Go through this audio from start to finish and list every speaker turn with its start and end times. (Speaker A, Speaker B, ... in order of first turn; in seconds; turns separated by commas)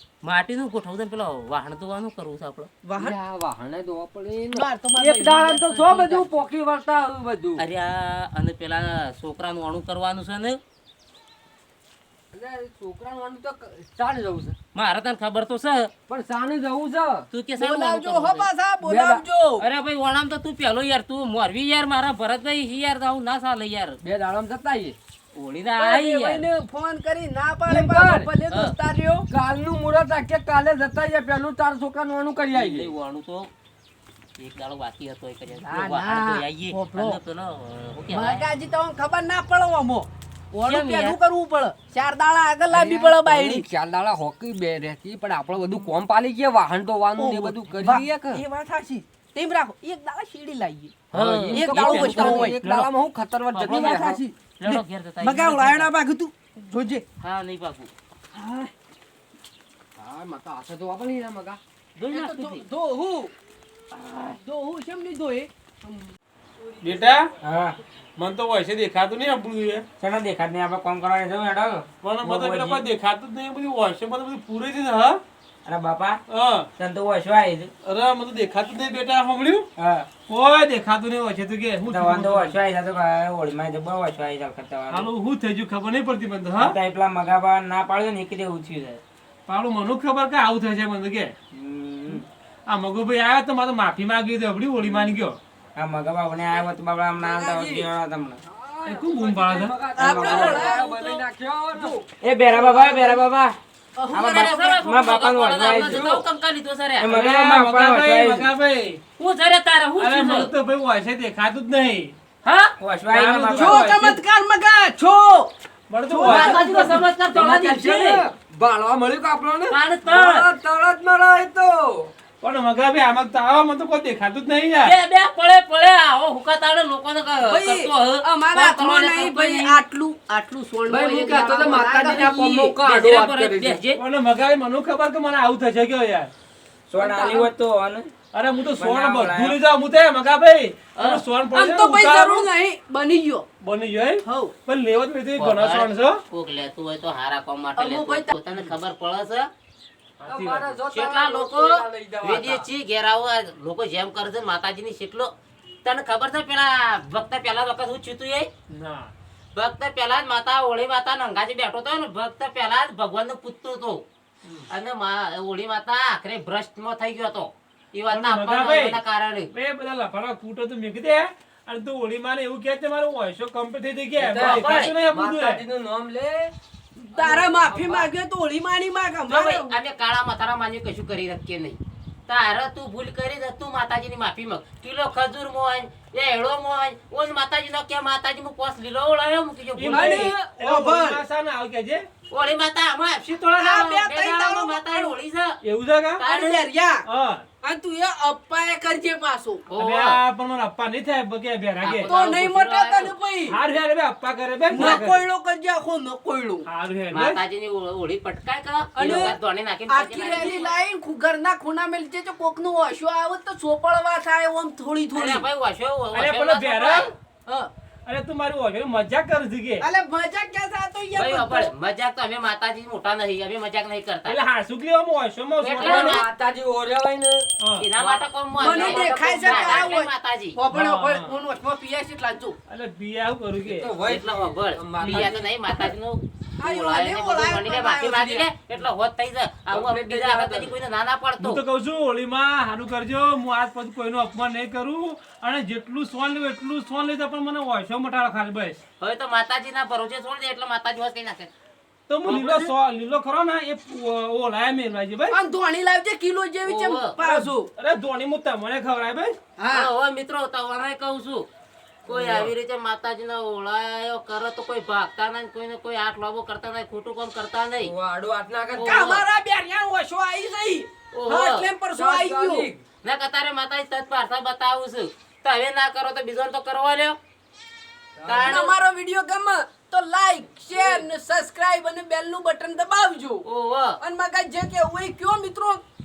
Speaker A: 0.2-2.7, Speaker B: 2.8-3.1, Speaker C: 3.0-7.6, Speaker B: 4.5-6.4, Speaker A: 7.6-10.6, Speaker C: 12.3-14.6, Speaker A: 14.7-15.9, Speaker C: 16.1-17.3, Speaker A: 17.3-18.5, Speaker B: 17.6-19.6, Speaker C: 18.8-19.2, Speaker A: 19.6-24.0, Speaker C: 24.0-25.0, Speaker A: 25.3-26.4, Speaker B: 25.8-29.2, Speaker C: 27.6-28.3, Speaker C: 29.3-32.9, Speaker A: 32.5-33.5, Speaker A: 34.4-38.4, Speaker B: 35.6-37.2, Speaker B: 38.1-43.6, Speaker A: 40.6-41.1, Speaker C: 42.7-48.4, Speaker B: 47.2-51.0, Speaker A: 51.1-52.9, Speaker C: 51.1-54.2, Speaker B: 51.5-52.6, Speaker A: 53.5-55.9, Speaker B: 53.7-57.0, Speaker A: 57.2-57.9, Speaker B: 58.3-58.7, Speaker C: 60.0-61.6, Speaker A: 62.0-62.6, Speaker B: 62.1-63.3, Speaker A: 63.9-64.4, Speaker B: 64.4-67.3, Speaker D: 66.8-67.3, Speaker E: 67.4-67.8, Speaker D: 68.2-69.9, Speaker E: 70.0-72.8, Speaker D: 72.0-75.2, Speaker E: 75.6-76.2, Speaker D: 76.3-76.7, Speaker E: 76.8-77.7, Speaker D: 77.8-79.7, Speaker E: 79.8-80.1, Speaker D: 80.3-82.6, Speaker E: 81.9-85.1, Speaker D: 84.9-86.8, Speaker E: 86.6-89.0, Speaker D: 89.5-91.3, Speaker E: 91.5-92.2, Speaker D: 92.7-95.4, Speaker E: 95.8-98.4, Speaker B: 96.3-96.7, Speaker C: 97.2-97.8, Speaker B: 97.2-97.9, Speaker C: 98.4-102.0, Speaker D: 98.8-99.8, Speaker B: 99.9-101.2, Speaker E: 100.0-100.5, Speaker A: 100.2-100.8, Speaker B: 101.7-103.2, Speaker E: 102.2-103.6, Speaker B: 104.0-104.8, Speaker E: 104.1-106.0, Speaker A: 104.3-107.1, Speaker C: 105.7-106.2, Speaker E: 107.0-108.5, Speaker D: 107.1-109.0, Speaker A: 109.2-110.5, Speaker D: 110.0-112.1, Speaker A: 112.4-112.7, Speaker E: 112.8-113.9, Speaker D: 113.1-114.2, Speaker B: 113.5-115.5, Speaker D: 115.9-117.0, Speaker B: 116.1-116.9, Speaker A: 116.2-118.2, Speaker C: 116.5-122.1, Speaker A: 119.7-120.5, Speaker D: 122.4-124.9, Speaker A: 124.8-129.8, Speaker B: 127.4-132.7, Speaker C: 130.9-133.8, Speaker A: 132.8-134.0, Speaker D: 133.9-136.3, Speaker E: 136.9-138.1, Speaker B: 136.9-137.5, Speaker D: 138.3-142.5, Speaker E: 138.8-139.6, Speaker A: 140.9-141.2, Speaker B: 141.5-143.4, Speaker D: 143.6-146.2, Speaker B: 144.2-144.5, Speaker A: 145.4-149.5, Speaker B: 147.8-148.4, Speaker D: 150.2-150.7, Speaker C: 150.2-152.7, Speaker A: 150.9-155.3, Speaker A: 155.8-158.5, Speaker D: 158.7-159.1, Speaker A: 159.5-164.0, Speaker A: 164.7-169.5, Speaker D: 168.1-169.0, Speaker D: 169.5-175.6, Speaker C: 174.2-176.5, Speaker A: 174.3-174.9, Speaker C: 177.1-178.1, Speaker B: 177.1-179.7, Speaker A: 179.3-190.3, Speaker D: 189.8-192.1, Speaker B: 189.9-191.2, Speaker A: 192.3-195.6, Speaker B: 193.5-195.2, Speaker D: 195.6-196.2, Speaker A: 196.2-196.7, Speaker B: 196.2-197.0, Speaker D: 197.1-197.4, Speaker B: 197.6-199.7, Speaker A: 199.7-200.2, Speaker D: 199.8-202.1, Speaker A: 201.8-203.1, Speaker B: 202.0-203.6, Speaker D: 203.5-205.2, Speaker B: 204.7-206.7, Speaker D: 206.7-207.4, Speaker A: 207.1-210.7, Speaker B: 208.9-215.4, Speaker A: 215.1-217.1, Speaker D: 216.1-217.1, Speaker D: 218.1-219.9, Speaker B: 219.8-221.7, Speaker A: 221.1-224.3, Speaker D: 224.2-226.2, Speaker A: 225.6-226.2, Speaker C: 225.7-227.5, Speaker D: 227.6-228.2, Speaker A: 227.8-230.6, Speaker B: 228.6-232.6, Speaker C: 228.7-229.9, Speaker D: 230.7-231.3, Speaker D: 232.7-233.9, Speaker C: 233.6-235.5, Speaker A: 234.0-241.6, Speaker B: 235.1-235.9, Speaker B: 236.6-238.5, Speaker C: 239.7-240.7, Speaker D: 241.4-248.8, Speaker A: 249.0-251.5, Speaker D: 252.1-255.4, Speaker A: 252.2-252.7, Speaker B: 255.3-257.7, Speaker A: 256.6-257.2, Speaker D: 257.2-259.4, Speaker B: 259.6-259.9, Speaker A: 259.7-261.5, Speaker A: 262.0-267.9, Speaker D: 262.1-262.5, Speaker C: 267.8-269.2, Speaker A: 268.7-269.2, Speaker B: 268.8-272.7, Speaker A: 271.1-271.6, Speaker C: 271.9-272.8, Speaker A: 273.0-277.2, Speaker C: 278.1-278.5, Speaker A: 278.2-278.7, Speaker B: 278.3-283.4, Speaker A: 283.4-284.0, Speaker B: 284.0-285.8